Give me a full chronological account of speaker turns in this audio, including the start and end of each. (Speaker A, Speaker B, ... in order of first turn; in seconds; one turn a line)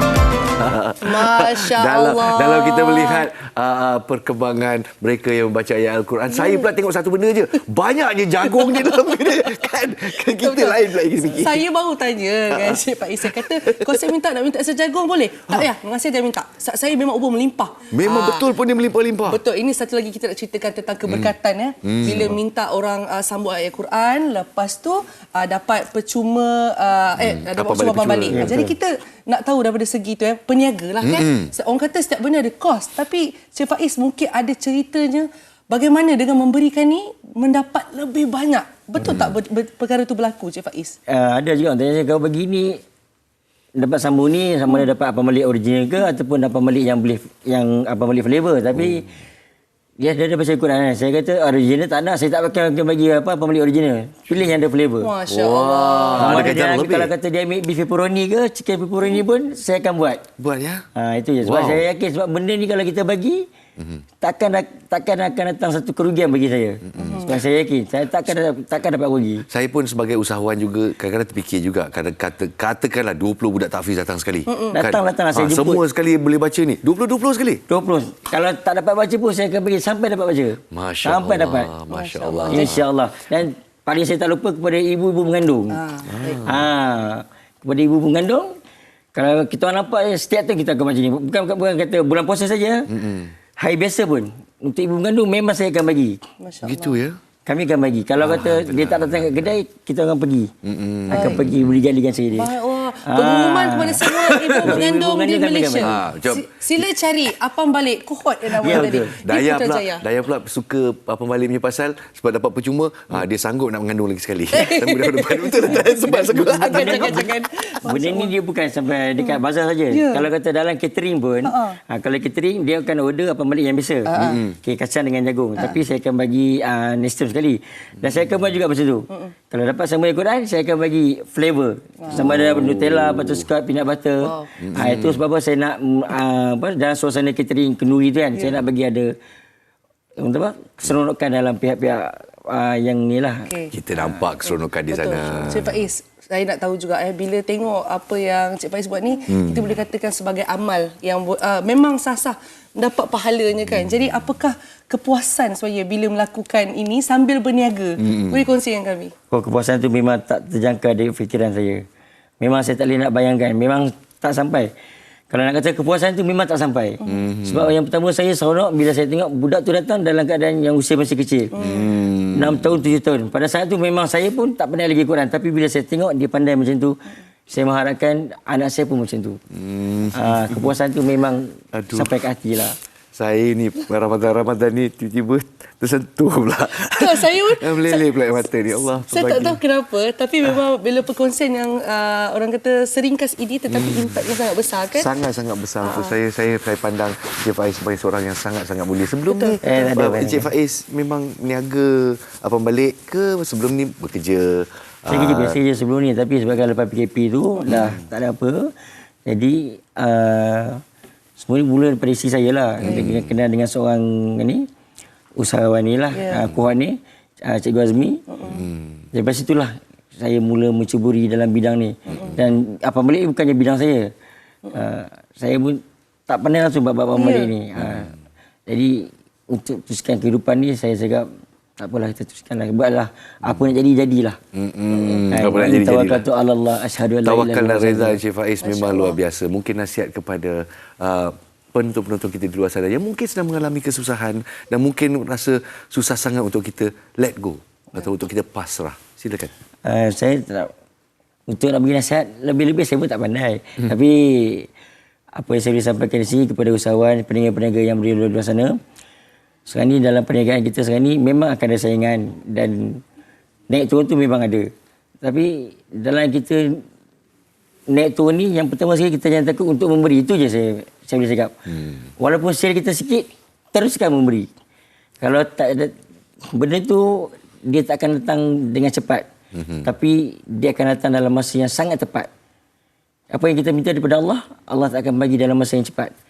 Speaker A: 0.6-11.7
Speaker B: 1.0-3.3
Speaker B: 6.3-6.6
Speaker B: 10.3-18.5
Speaker A: 12.5-14.0
Speaker A: 17.9-19.4
Speaker B: 19.3-41.0
Speaker A: 21.1-22.4
Speaker A: 27.2-28.6
Speaker C: 28.3-28.7
Speaker A: 31.0-31.5
Speaker A: 39.0-39.4
Speaker C: 41.1-42.8
Speaker C: 43.8-49.1
Speaker C: 50.0-55.1
Speaker B: 55.0-56.5
Speaker A: 55.3-57.1
Speaker C: 56.2-60.2
Speaker A: 60.4-60.9
Speaker C: 61.0-63.5
Speaker A: 61.4-61.9
Speaker A: 63.8-64.0
Speaker C: 64.2-69.5
Speaker A: 66.8-67.3
Speaker B: 67.0-67.3
Speaker A: 69.5-77.6
Speaker C: 74.7-75.8
Speaker C: 77.7-81.7
Speaker A: 80.7-82.8
Speaker B: 81.9-82.7
Speaker C: 82.5-85.8
Speaker B: 85.7-86.4
Speaker A: 86.1-86.6
Speaker C: 86.5-88.5
Speaker C: 89.1-92.9
Speaker A: 92.9-93.3
Speaker C: 93.6-96.2
Speaker B: 96.4-97.0
Speaker A: 96.6-97.2
Speaker C: 97.5-100.5
Speaker A: 98.2-99.6
Speaker A: 100.6-101.7
Speaker C: 101.1-102.5
Speaker B: 101.1-101.4
Speaker B: 102.3-110.0
Speaker C: 103.0-104.0
Speaker A: 104.1-104.8
Speaker C: 104.6-106.0
Speaker A: 105.8-106.9
Speaker C: 108.6-109.1
Speaker A: 108.7-117.3
Speaker B: 114.5-118.3
Speaker C: 116.7-117.3
Speaker C: 117.9-139.2
Speaker B: 119.9-120.3
Speaker B: 121.4-121.8
Speaker B: 124.1-124.4
Speaker A: 132.1-133.4
Speaker B: 134.2-134.5
Speaker A: 134.6-135.2
Speaker C: 140.2-143.5
Speaker B: 143.5-143.7
Speaker A: 143.7-145.8
Speaker B: 144.9-159.1
Speaker A: 149.3-149.8
Speaker A: 158.0-158.5
Speaker C: 159.3-161.8
Speaker C: 162.4-164.7
Speaker C: 165.3-171.5
Speaker B: 167.0-167.3
Speaker A: 167.1-167.7
Speaker B: 171.5-171.9
Speaker A: 171.6-172.9
Speaker C: 172.3-179.4
Speaker A: 179.5-180.8
Speaker C: 180.1-182.8
Speaker A: 181.7-182.1
Speaker A: 183.2-189.6
Speaker B: 186.8-188.1
Speaker B: 189.0-195.1
Speaker A: 193.7-194.3
Speaker A: 194.9-205.6
Speaker B: 195.8-196.2
Speaker B: 199.3-199.6
Speaker C: 199.6-200.5
Speaker C: 205.1-208.7
Speaker A: 207.7-208.0
Speaker C: 209.3-210.8
Speaker C: 211.4-214.7
Speaker A: 212.8-213.3
Speaker C: 215.4-218.2
Speaker B: 216.1-216.4
Speaker B: 218.3-218.6
Speaker A: 218.5-219.1
Speaker C: 219.1-224.1
Speaker B: 222.1-222.3
Speaker C: 224.7-228.1
Speaker B: 227.1-227.5
Speaker A: 227.8-228.1
Speaker C: 228.7-231.3
Speaker C: 231.8-234.4
Speaker A: 234.5-236.2
Speaker C: 235.3-238.2
Speaker A: 237.2-249.5
Speaker B: 238.6-239.2
Speaker C: 249.8-250.7
Speaker C: 251.5-254.7
Speaker C: 255.3-258.8
Speaker C: 259.7-263.0
Speaker C: 263.7-264.7
Speaker C: 265.2-266.8
Speaker C: 267.9-271.5
Speaker A: 271.8-272.0
Speaker C: 272.2-274.5
Speaker C: 275.2-275.9
Speaker C: 276.5-279.3
Speaker A: 279.5-279.9
Speaker C: 279.9-282.3
Speaker C: 283.3-286.1